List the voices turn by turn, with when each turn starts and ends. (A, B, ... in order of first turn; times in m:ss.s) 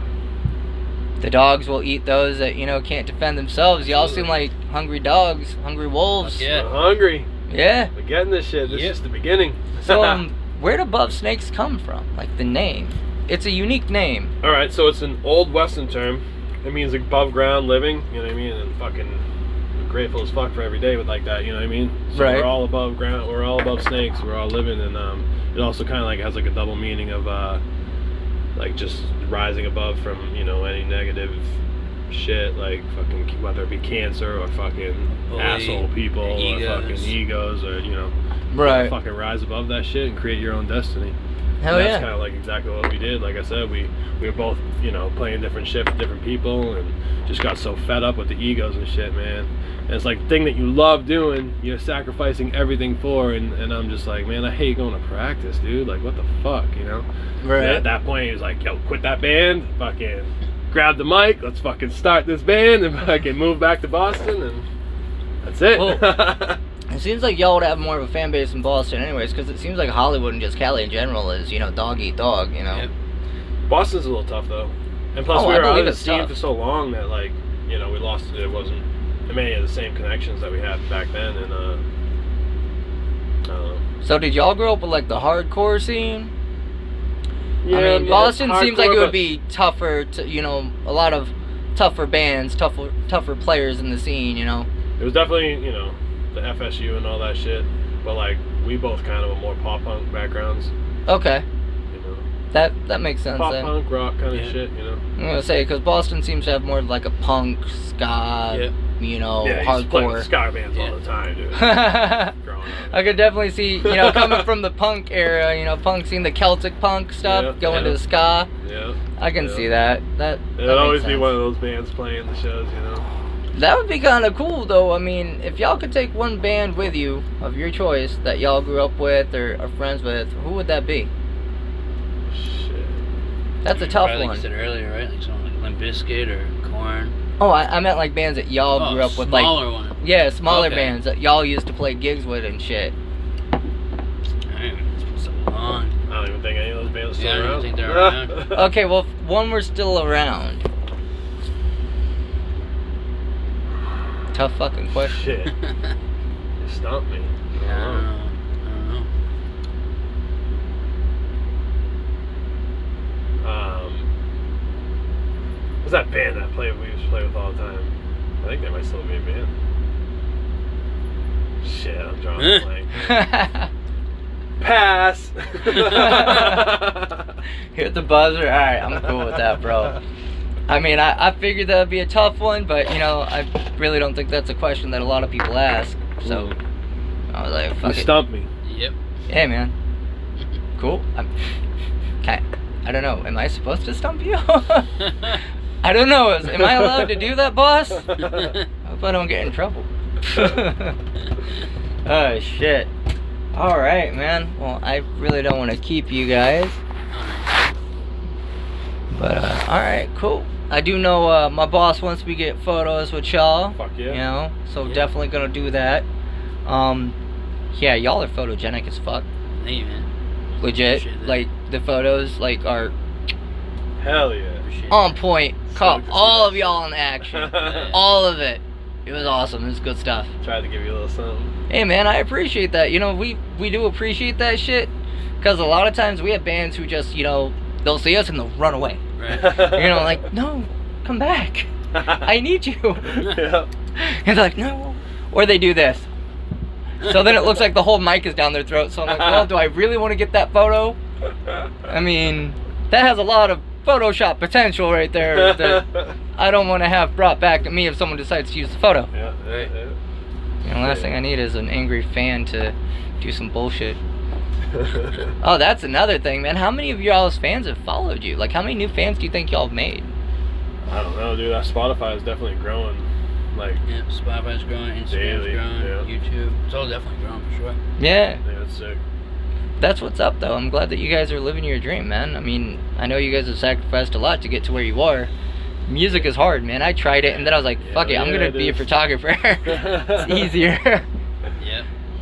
0:01.2-0:06.6 A
0:03.9-0:04.3 B
0:06.2-0:06.7 B
0:06.5-0:07.3 C
0:07.5-0:07.9 A
0:07.9-0:10.2 C
0:08.6-0:09.0 B
0:09.8-0:14.3 A
0:14.4-0:19.2 C
0:19.8-0:27.6 C
0:22.1-0:22.6 A
0:28.6-0:31.5 C
0:32.1-0:41.2 C
0:35.3-0:37.2 B
0:38.5-0:39.0 A
0:41.6-0:42.1 A
0:41.7-1:04.7 C
0:57.4-0:57.9 A
1:05.4-1:06.6 C
1:05.7-1:06.2 A
1:06.9-1:12.8 A
1:13.7-1:21.8 C
1:15.3-1:16.4 A
1:23.4-1:23.8 C
1:24.0-1:26.3 A
1:27.6-1:29.2 C
1:27.7-1:34.7 A
1:35.0-1:40.7 C
1:41.1-1:41.4 A
1:41.9-1:42.2 C
1:42.5-1:43.7 A
1:43.3-1:45.0 C
1:44.3-1:44.6 B
1:45.2-1:50.3 A
1:49.4-1:53.2 C
1:51.6-1:52.4 A
1:52.9-1:58.5 A
1:53.8-1:54.5 C
1:57.2-1:58.0 C
1:58.6-1:59.7 C
1:59.2-2:01.4 A
2:00.6-2:03.0 C
2:03.5-2:11.1 A
2:12.3-2:13.0 C
2:13.6-2:14.4 A
2:13.7-2:17.2 B
2:17.4-2:23.0 A
2:18.8-2:21.0 B
2:24.5-2:26.0 B
2:26.1-2:28.7 C
2:27.2-2:28.5 B
2:28.5-2:30.6 A
2:34.3-2:35.2 A
2:35.0-2:35.5 C
2:36.6-2:38.1 C
2:37.6-2:39.1 B
2:43.4-2:44.1 C
2:45.8-2:49.5 C
2:51.6-2:53.3 C
2:52.4-2:52.6 B
2:53.0-2:53.7 A
2:54.6-2:57.3 C
2:55.8-2:56.7 A
2:57.8-3:00.0 A
3:00.7-3:06.5 A
3:06.2-3:06.6 C
3:07.3-3:08.2 A
3:07.8-3:08.5 C
3:08.6-3:09.0 B
3:09.3-3:09.7 A
3:10.8-3:11.3 A
3:12.2-3:15.0 A
3:15.8-3:18.3 A
3:16.6-3:17.1 C
3:18.2-3:18.6 B
3:18.8-3:21.0 A
3:22.0-3:22.9 A
3:23.5-3:26.8 A
3:27.1-3:27.8 B
3:29.1-3:36.1 A
3:33.7-3:34.2 C
3:34.8-3:35.1 B
3:36.6-3:37.2 A
3:37.7-3:39.3 A
3:39.6-3:40.1 B
3:40.6-3:42.9 A
3:40.6-3:41.5 B
3:44.0-3:44.6 C
3:44.6-3:45.2 B
3:44.9-3:50.3 A
3:45.7-3:48.0 C
3:47.6-3:48.0 B
3:50.4-3:51.5 C
3:51.7-4:03.3 A
3:59.2-3:59.6 B
3:59.3-4:00.2 C
4:01.9-4:02.3 C
4:03.0-4:03.7 C
4:04.0-4:06.1 A
4:07.0-4:11.0 A
4:09.1-4:09.5 C
4:11.9-4:19.1 A
4:15.2-4:16.1 C
4:19.1-4:20.0 C
4:20.6-4:24.0 A
4:20.8-4:21.1 C
4:24.7-4:25.3 C
4:25.4-4:30.1 A
4:30.9-4:33.8 C
4:33.9-4:37.8 B
4:35.1-4:36.1 C
4:38.0-4:38.4 A
4:38.4-4:39.0 C
4:39.8-4:45.3 A
4:45.9-4:51.1 A
4:47.3-4:48.9 C
4:49.6-4:50.6 C
4:51.6-4:51.9 B